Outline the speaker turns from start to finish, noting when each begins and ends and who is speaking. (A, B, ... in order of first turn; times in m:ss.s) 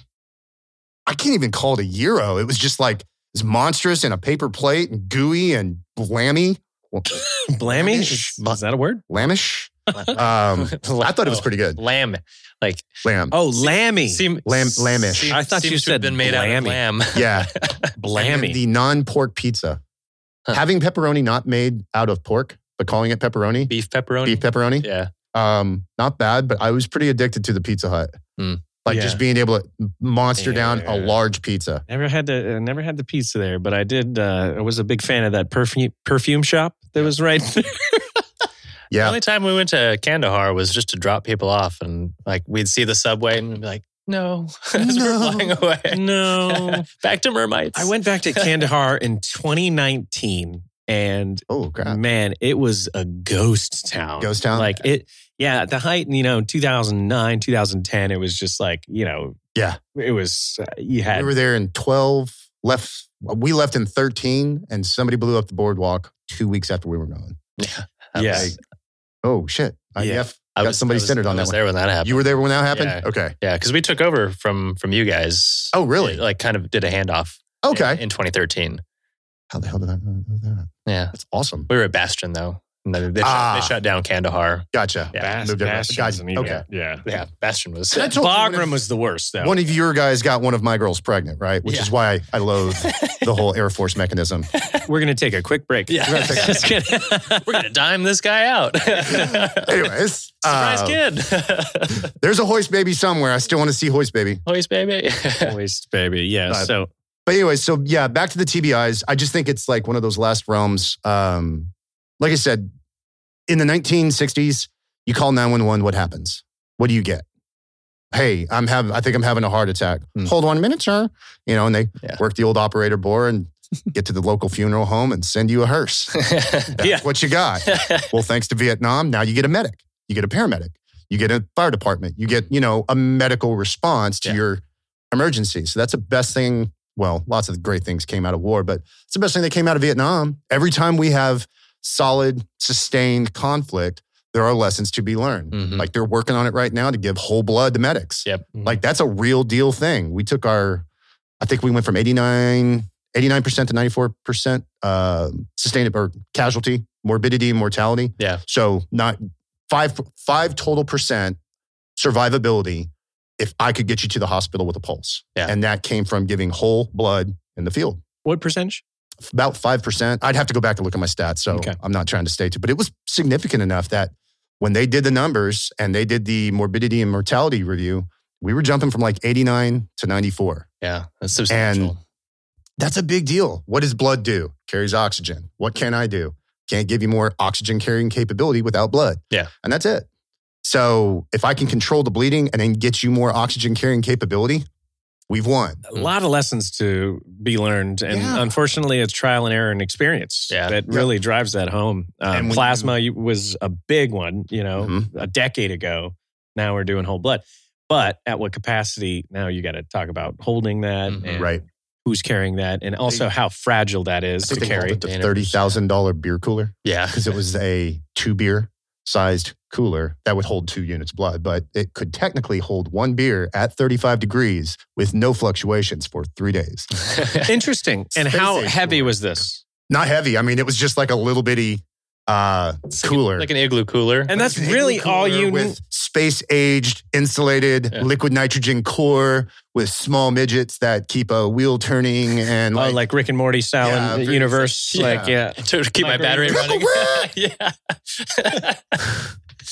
0:01.0-0:08.4 A
0:07.5-0:09.0 B
0:09.1-0:11.8 A
0:09.9-0:13.0 C
0:13.0-0:13.4 A
0:13.3-0:14.2 B
0:13.6-0:17.9 C
0:14.4-0:15.4 A
0:15.3-0:16.8 B
0:17.1-0:17.5 A
0:18.0-0:18.6 B
0:18.1-0:19.8 A
0:20.5-0:23.7 A
0:23.7-0:25.1 C
0:24.2-0:28.2 A
0:28.8-0:31.8 A
0:28.9-0:29.2 B
0:30.4-0:31.2 B
0:31.9-0:38.1 B
0:38.9-0:39.2 A
0:38.9-0:48.6 C
0:44.8-0:45.6 A
0:45.9-0:46.8 B
0:47.7-0:59.4 B
0:51.5-0:52.0 A
0:54.2-0:54.8 A
0:59.9-1:01.3 B
1:01.1-1:07.4 A
1:07.6-1:08.5 C
1:08.1-1:08.5 B
1:08.3-1:08.6 A
1:09.2-1:13.3 A
1:10.0-1:10.2 B
1:10.6-1:18.8 C
1:15.7-1:16.2 A
1:17.6-1:18.0 A
1:19.5-1:21.7 A
1:20.8-1:21.1 C
1:21.7-1:25.3 C
1:23.2-1:23.8 A
1:24.7-1:26.6 A
1:25.1-1:27.0 B
1:27.0-1:28.1 C
1:27.9-1:28.8 A
1:28.2-1:29.6 B
1:29.4-1:34.5 A
1:31.6-1:31.9 C
1:32.6-1:33.4 C
1:34.5-1:34.8 C
1:34.8-1:37.6 B
1:35.9-1:39.8 C
1:36.1-1:36.6 A
1:39.1-1:41.0 A
1:40.4-1:42.1 C
1:42.2-1:44.4 A
1:44.4-1:45.6 C
1:45.4-1:46.9 B
1:47.3-1:52.7 A
1:53.5-1:57.2 A
1:58.1-2:30.8 A
2:06.1-2:07.1 C
2:07.6-2:08.1 C
2:25.5-2:25.9 C
2:28.2-2:28.5 C
2:31.4-2:41.4 A
2:42.0-2:48.0 A
2:48.2-2:48.8 B
2:49.3-3:00.7 A
2:51.5-2:51.8 B
3:00.8-3:02.0 C
3:01.5-3:01.9 A
3:02.8-3:10.1 A
3:10.6-3:14.6 A
3:15.3-3:15.8 A
3:15.9-3:35.0 B
3:18.1-3:18.5 A
3:20.5-3:20.8 C
3:22.3-3:22.9 A
3:24.8-3:25.1 A
3:31.1-3:31.4 C
3:34.4-3:47.2 A
3:34.5-3:35.7 C
3:36.8-3:37.3 C
3:47.1-3:47.5 C
3:47.4-3:49.6 B
3:48.1-3:49.1 A
3:49.9-3:53.5 A
3:52.9-3:54.3 C
3:54.3-3:55.8 B
3:54.3-4:03.0 A
4:02.7-4:06.9 B
4:03.8-4:05.3 A
4:04.9-4:09.2 C
4:06.5-4:07.3 A